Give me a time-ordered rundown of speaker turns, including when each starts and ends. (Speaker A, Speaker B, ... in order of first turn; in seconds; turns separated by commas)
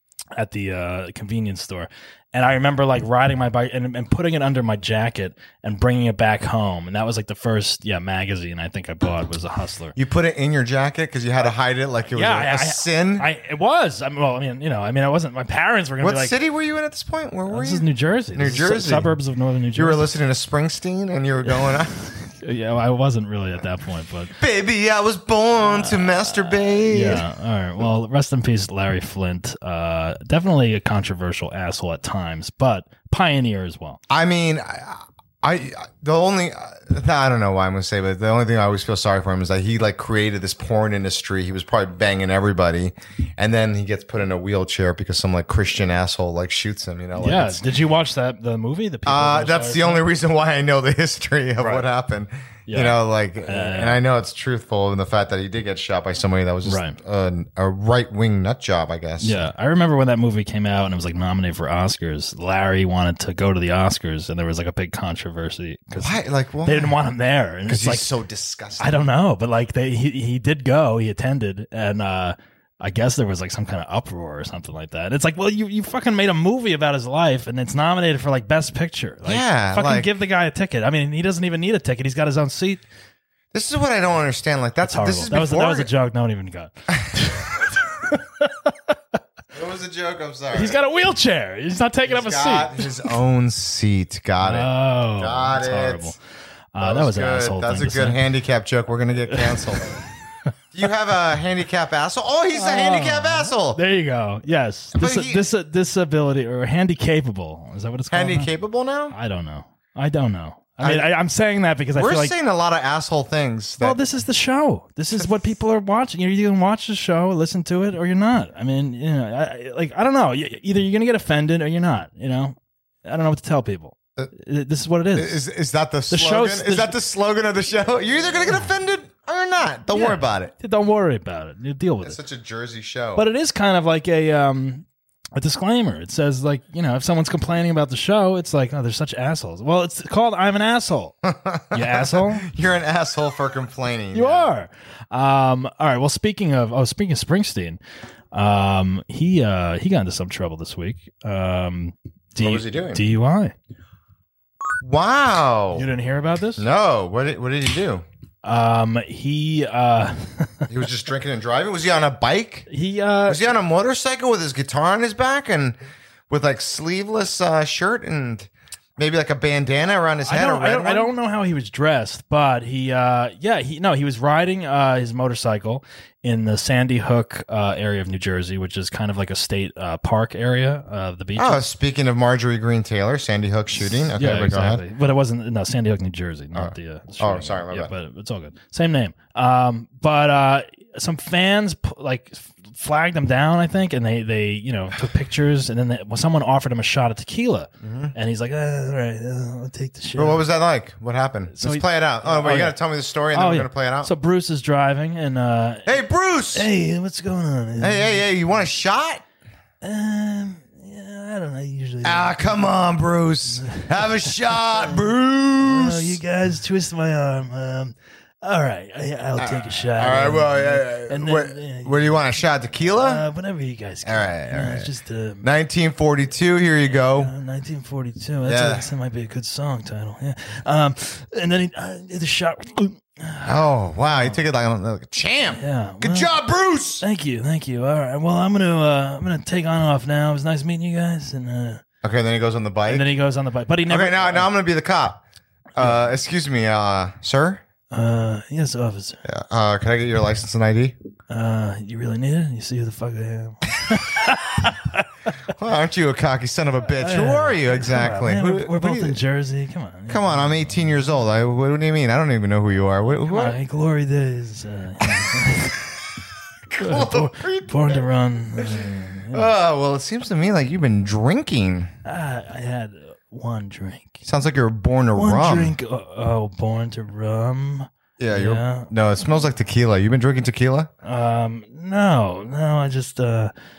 Speaker A: 0.4-10.0, Speaker B: 9.9-13.3, Speaker A: 12.1-16.4, Speaker B: 16.0-19.2, Speaker A: 17.5-20.1, Speaker B: 19.8-21.9, Speaker A: 21.7-24.4, Speaker B: 24.4-27.2, Speaker A: 25.6-34.0, Speaker B: 34.1-47.6, Speaker A: 47.2-50.0, Speaker B: 49.1-59.4, Speaker A: 51.6-51.9, Speaker A: 52.7-54.0, Speaker A: 56.6-57.0, Speaker A: 59.2-68.1, Speaker B: 66.0-67.0, Speaker B: 67.7-69.0, Speaker A: 68.8-82.8, Speaker B: 79.2-80.1, Speaker B: 83.5-85.9, Speaker A: 84.8-89.0, Speaker B: 89.5-90.8, Speaker A: 90.5-93.1, Speaker B: 92.1-96.2, Speaker A: 94.4-96.2, Speaker A: 96.7-98.2, Speaker B: 96.8-100.0, Speaker A: 99.3-100.0, Speaker B: 100.7-103.8, Speaker A: 102.5-108.5, Speaker B: 104.9-105.5, Speaker B: 108.1-109.2, Speaker A: 109.1-112.3, Speaker B: 110.8-111.1, Speaker B: 112.0-114.0, Speaker A: 113.8-125.4, Speaker B: 125.2-130.5, Speaker A: 126.1-127.0, Speaker A: 129.9-132.2, Speaker B: 132.0-133.3, Speaker A: 133.2-134.8, Speaker A: 135.4-141.2, Speaker B: 141.2-144.5, Speaker A: 141.7-142.5, Speaker A: 144.1-147.8, Speaker A: 148.3-153.6, Speaker B: 152.4-153.0, Speaker B: 154.8-155.9, Speaker A: 155.7-156.7, Speaker B: 156.6-158.1, Speaker A: 158.4-160.7, Speaker B: 160.7-162.7, Speaker A: 162.7-163.4, Speaker B: 163.3-165.8, Speaker B: 166.3-171.1, Speaker A: 170.2-181.6, Speaker B: 181.4-184.8, Speaker A: 184.1-200.4, Speaker B: 186.6-187.9, Speaker B: 197.8-198.2, Speaker B: 200.2-204.1, Speaker A: 201.5-202.8, Speaker A: 203.3-208.2, Speaker B: 205.9-206.7, Speaker B: 207.8-209.2, Speaker A: 209.8-212.7, Speaker B: 212.0-216.2, Speaker A: 213.5-214.9, Speaker A: 215.6-222.2, Speaker B: 219.4-223.2, Speaker A: 222.8-225.4, Speaker B: 224.0-224.9, Speaker B: 225.4-227.3, Speaker A: 227.0-234.4, Speaker B: 228.4-228.9, Speaker B: 233.4-237.0, Speaker A: 235.5-236.3, Speaker A: 237.0-241.8, Speaker B: 242.0-243.1, Speaker A: 242.9-244.5, Speaker B: 243.9-245.2, Speaker A: 245.8-246.1, Speaker B: 245.8-247.6, Speaker A: 247.9-249.2, Speaker B: 249.2-251.0, Speaker A: 251.3-255.3, Speaker B: 255.5-259.2, Speaker A: 257.0-260.9, Speaker B: 260.1-263.6, Speaker A: 263.3-265.8, Speaker B: 266.7-268.1, Speaker A: 266.8-269.5, Speaker B: 268.6-271.9, Speaker A: 272.1-274.2, Speaker B: 274.2-275.8, Speaker A: 275.1-278.9, Speaker B: 278.2-280.9, Speaker A: 281.0-283.5